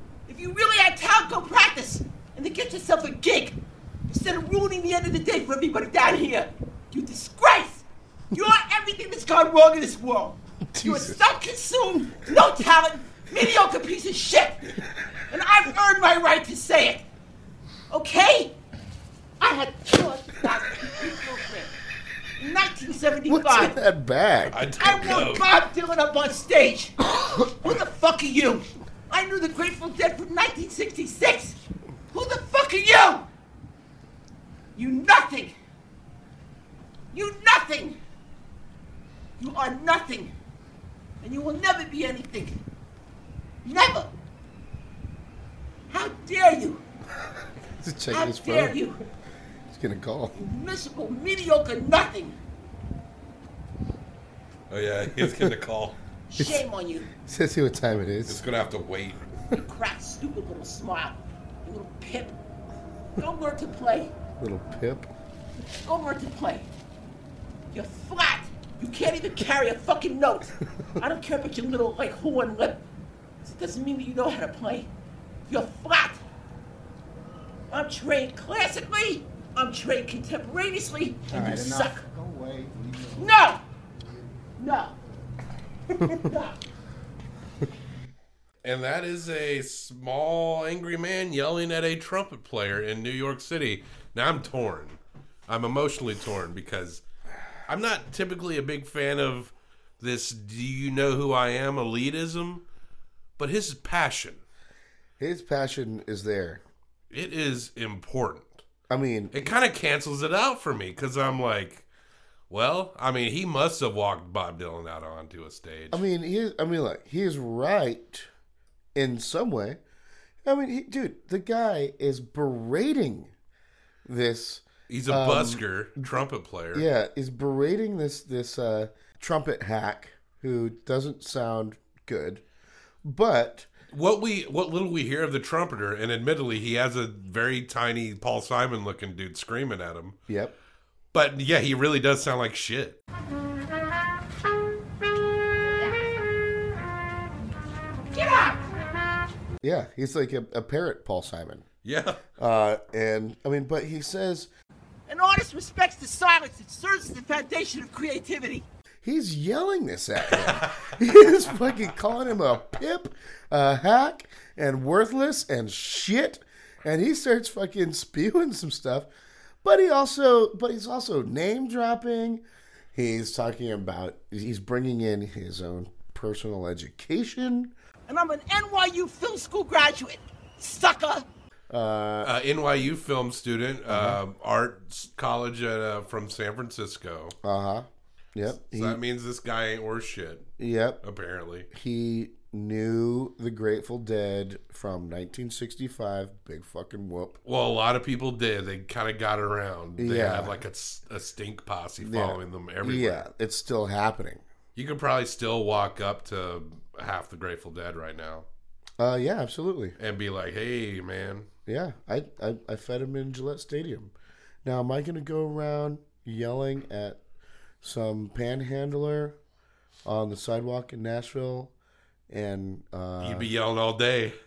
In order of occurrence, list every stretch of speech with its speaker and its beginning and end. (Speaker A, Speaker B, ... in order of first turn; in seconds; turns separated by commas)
Speaker A: 0.2-17.0, Speaker B: 10.7-11.3, Speaker A: 17.9-18.6, Speaker A: 19.4-21.7, Speaker A: 22.4-23.8, Speaker B: 23.2-24.6, Speaker C: 24.4-25.5, Speaker A: 24.8-33.3, Speaker A: 34.7-35.5, Speaker A: 37.1-38.0, Speaker A: 39.4-40.3, Speaker A: 41.2-42.6, Speaker A: 43.6-44.1, Speaker A: 45.9-46.8, Speaker B: 47.8-48.8, Speaker A: 48.1-49.0, Speaker B: 49.7-50.4, Speaker A: 50.3-52.4, Speaker C: 54.7-56.0, Speaker B: 55.1-55.5, Speaker A: 56.3-57.1, Speaker B: 56.4-56.6, Speaker B: 57.2-58.4, Speaker C: 58.2-59.3, Speaker A: 59.5-62.4, Speaker A: 63.2-64.1, Speaker B: 64.4-65.1, Speaker A: 65.8-66.7, Speaker A: 67.7-72.8, Speaker A: 73.4-74.9, Speaker A: 75.5-76.2, Speaker A: 77.7-82.0, Speaker D: 81.3-83.3, Speaker A: 83.2-83.6, Speaker A: 84.6-84.9, Speaker A: 85.9-86.6, Speaker C: 88.6-97.0, Speaker C: 97.7-102.6, Speaker C: 103.4-104.4, Speaker B: 105.2-106.6, Speaker C: 107.1-108.6, Speaker B: 108.9-109.5, Speaker C: 109.3-111.9, Speaker C: 112.5-116.0, Speaker B: 115.9-118.3, Speaker B: 118.9-119.8, Speaker B: 120.4-123.3, Speaker B: 124.0-125.6, Speaker C: 124.9-126.8, Speaker B: 126.7-132.4, Speaker B: 133.0-133.7, Speaker C: 133.9-140.2, Speaker B: 140.3-140.5, Speaker C: 141.1-143.0, Speaker A: 145.6-146.1, Speaker A: 148.1-148.7, Speaker B: 149.6-151.7, Speaker C: 151.8-152.2, Speaker B: 152.4-154.5, Speaker A: 155.1-158.7, Speaker B: 159.0-169.1, Speaker C: 160.2-161.0, Speaker B: 169.6-172.4, Speaker B: 172.9-177.7, Speaker A: 178.1-181.2, Speaker B: 181.7-182.3, Speaker C: 182.2-187.3, Speaker B: 183.9-184.2, Speaker B: 187.4-189.0, Speaker C: 188.5-190.5, Speaker B: 190.6-191.0, Speaker C: 191.0-191.7, Speaker B: 191.7-197.4, Speaker C: 197.4-203.2, Speaker B: 200.0-200.6, Speaker B: 202.0-204.4, Speaker C: 204.8-208.5, Speaker B: 209.0-209.9, Speaker C: 210.0-211.5, Speaker B: 211.7-214.1, Speaker B: 214.6-217.2, Speaker B: 217.8-219.4, Speaker B: 220.0-221.7, Speaker B: 222.3-223.5, Speaker C: 223.2-224.3